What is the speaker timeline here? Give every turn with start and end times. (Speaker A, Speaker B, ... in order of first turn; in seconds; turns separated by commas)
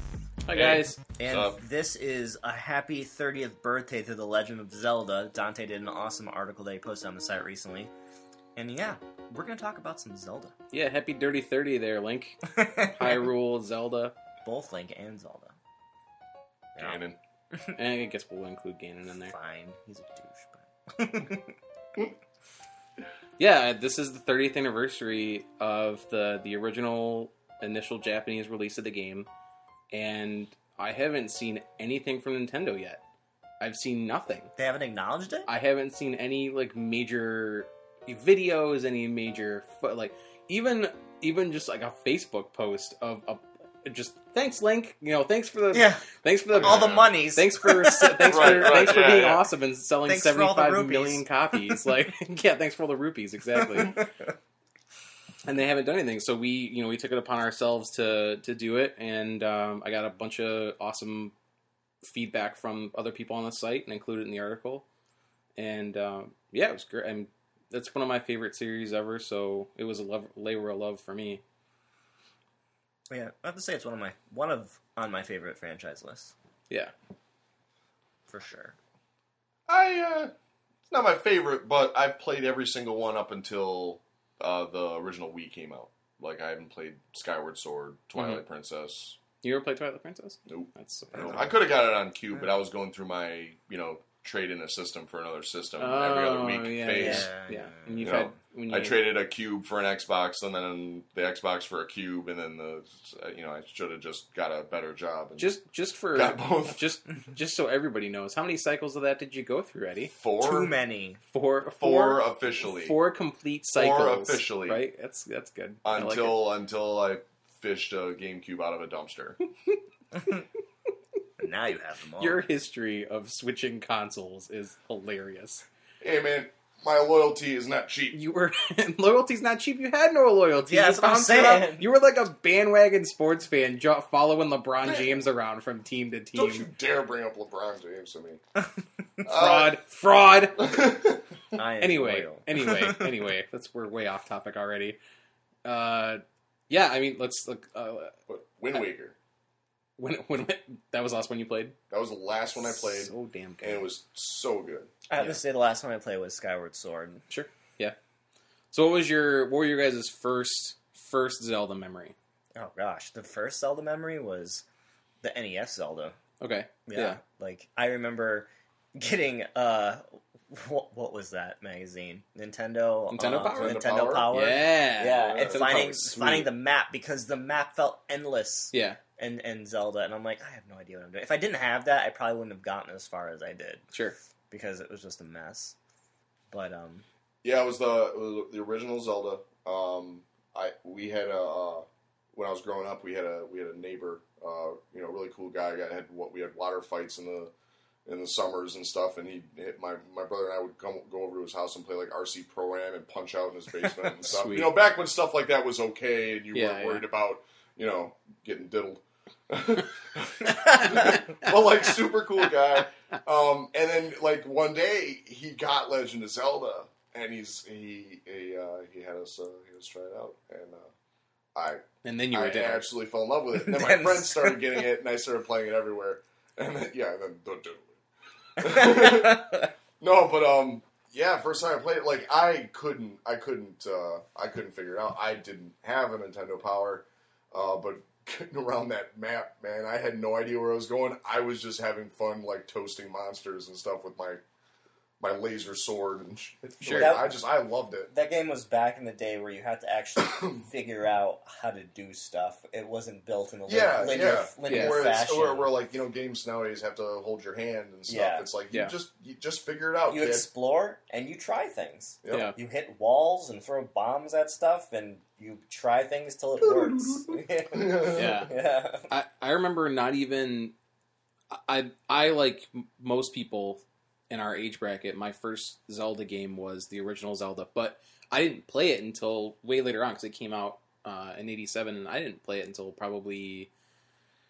Speaker A: 0.5-1.0, Speaker B: 0.5-1.6, Speaker C: 1.2-7.9, Speaker C: 8.6-10.5, Speaker A: 10.7-14.1, Speaker C: 12.5-13.2, Speaker C: 14.4-15.5, Speaker C: 16.8-17.0, Speaker B: 16.8-17.2, Speaker A: 17.7-19.3, Speaker C: 19.3-21.5, Speaker A: 23.4-29.3, Speaker A: 29.9-33.0, Speaker A: 33.6-34.5, Speaker C: 34.6-35.5, Speaker A: 35.5-54.0, Speaker C: 45.7-46.0, Speaker B: 46.5-47.0, Speaker C: 46.5-49.1, Speaker B: 48.3-49.4, Speaker C: 50.1-51.9, Speaker C: 53.6-54.1, Speaker A: 55.5-61.3, Speaker A: 62.0-64.8, Speaker A: 65.6-71.4, Speaker C: 73.1-76.3, Speaker C: 78.3-78.8, Speaker B: 79.7-80.3, Speaker B: 80.9-89.2, Speaker A: 88.2-88.4, Speaker A: 89.4-91.5, Speaker B: 90.5-97.3, Speaker A: 95.8-99.1, Speaker C: 96.9-98.3, Speaker B: 98.0-105.5, Speaker A: 105.4-110.1, Speaker B: 106.1-106.9, Speaker B: 110.1-110.7, Speaker C: 110.4-111.2, Speaker A: 111.3-116.4, Speaker B: 111.8-113.0, Speaker B: 113.7-114.8, Speaker B: 115.8-119.4, Speaker C: 120.1-120.4, Speaker C: 121.4-122.5, Speaker A: 122.2-125.7, Speaker B: 126.0-128.2, Speaker A: 128.1-136.7, Speaker C: 130.7-131.9, Speaker B: 134.8-135.2, Speaker B: 136.3-138.4, Speaker B: 139.2-139.8, Speaker A: 139.3-140.7, Speaker B: 140.6-141.2, Speaker C: 141.5-143.1, Speaker A: 141.8-145.0, Speaker A: 145.7-148.2, Speaker B: 148.3-149.2, Speaker A: 150.0-151.8, Speaker B: 151.9-154.9, Speaker A: 152.6-153.8, Speaker C: 155.1-157.2, Speaker A: 157.3-158.0, Speaker A: 158.7-162.2, Speaker C: 162.6-164.6, Speaker C: 165.2-166.1, Speaker A: 166.4-167.2, Speaker C: 166.9-183.8, Speaker A: 173.1-176.5, Speaker B: 173.4-174.3, Speaker B: 175.1-175.7, Speaker A: 178.7-179.0, Speaker C: 184.5-185.8, Speaker C: 186.5-187.1, Speaker B: 187.4-197.5, Speaker B: 198.1-220.9, Speaker A: 204.1-204.8, Speaker A: 206.5-207.1, Speaker C: 210.6-211.0, Speaker A: 211.2-211.5, Speaker B: 221.6-228.0, Speaker A: 222.0-222.8, Speaker C: 223.6-224.7, Speaker B: 228.6-244.4, Speaker C: 228.6-229.7, Speaker B: 245.2-248.1, Speaker A: 246.8-247.2, Speaker C: 247.0-247.4, Speaker C: 248.1-255.7, Speaker B: 250.2-250.7, Speaker B: 253.7-260.5, Speaker A: 254.7-255.2, Speaker C: 258.1-258.5, Speaker C: 260.1-269.1, Speaker B: 262.2-262.5, Speaker A: 262.3-262.6, Speaker B: 266.6-268.5, Speaker A: 268.1-270.7, Speaker A: 271.5-283.7